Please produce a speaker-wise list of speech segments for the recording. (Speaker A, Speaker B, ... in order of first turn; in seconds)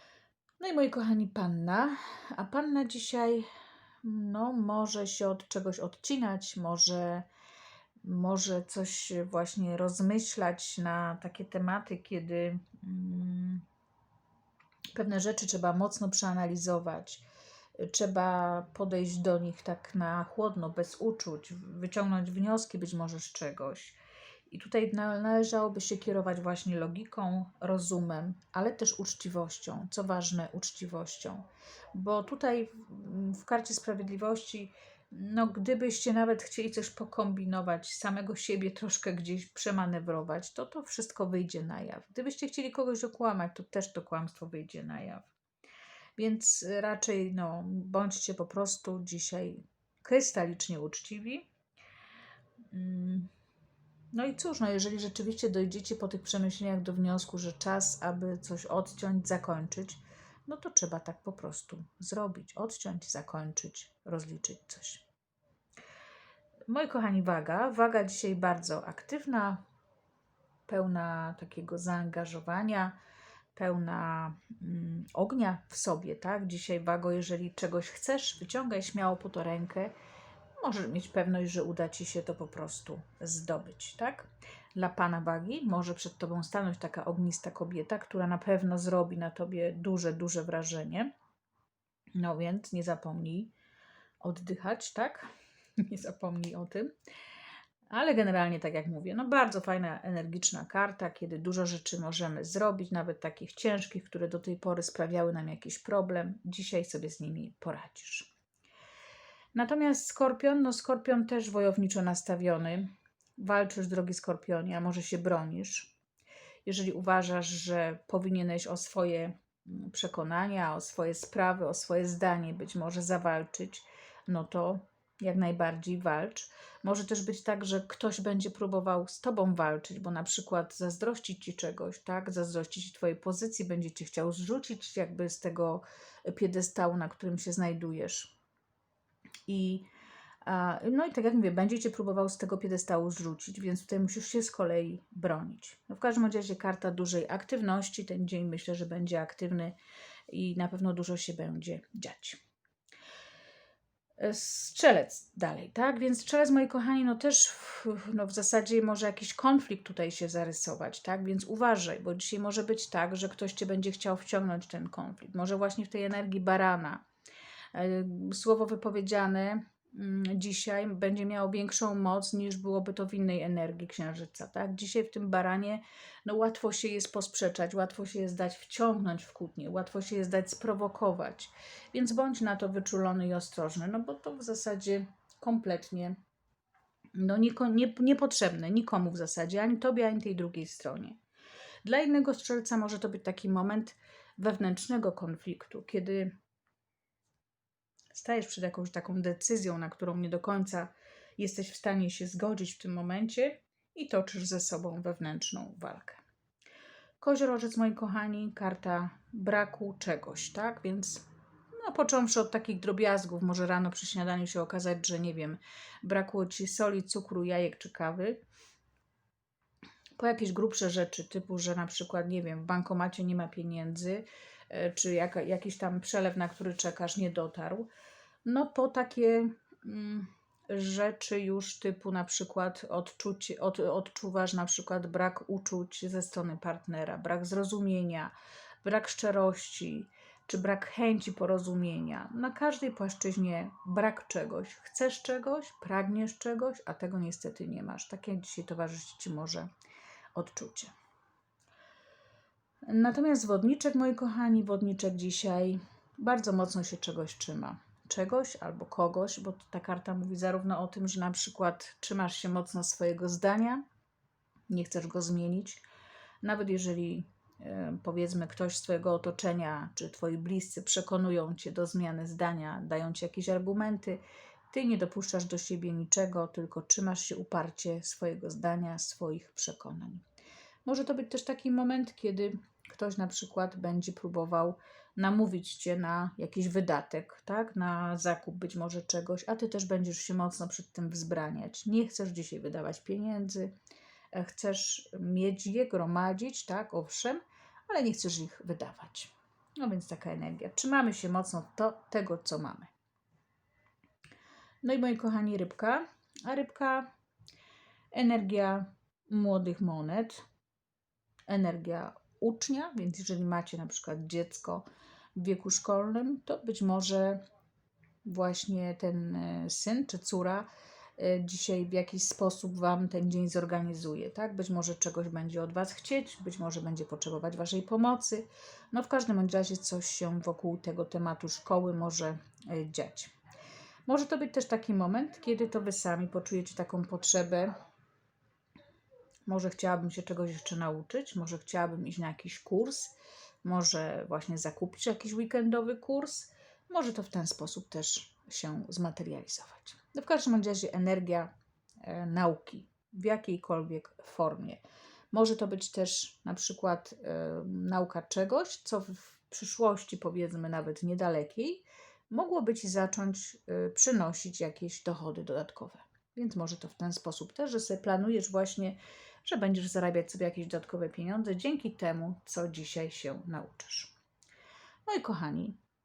Speaker A: 0.6-3.5, 4.0-7.2, 8.0-13.6, 14.9-17.2, 17.8-24.0, 24.5-45.3, 46.2-51.5, 52.7-53.3, 54.1-65.0, 66.7-69.6, 70.7-73.0, 73.5-79.9, 80.6-91.1, 92.1-93.5, 94.2-96.9, 97.9-108.3, 109.5-116.0, 116.6-138.3, 139.5-139.9, 140.4-149.8, 150.3-152.4, 154.2-167.0, 167.7-186.2, 187.1-191.2, 191.8-196.3, 198.1-206.2, 207.2-218.4, 220.2-227.9, 228.4-249.7, 250.3-250.9, 252.8-263.8, 264.7-265.8, 266.4-280.2, 280.9-293.7, 294.3-302.9, 304.8-307.1, 308.1-310.4, 311.5-317.4, 318.2-333.3, 334.1-337.7, 339.4-374.1, 375.1-375.8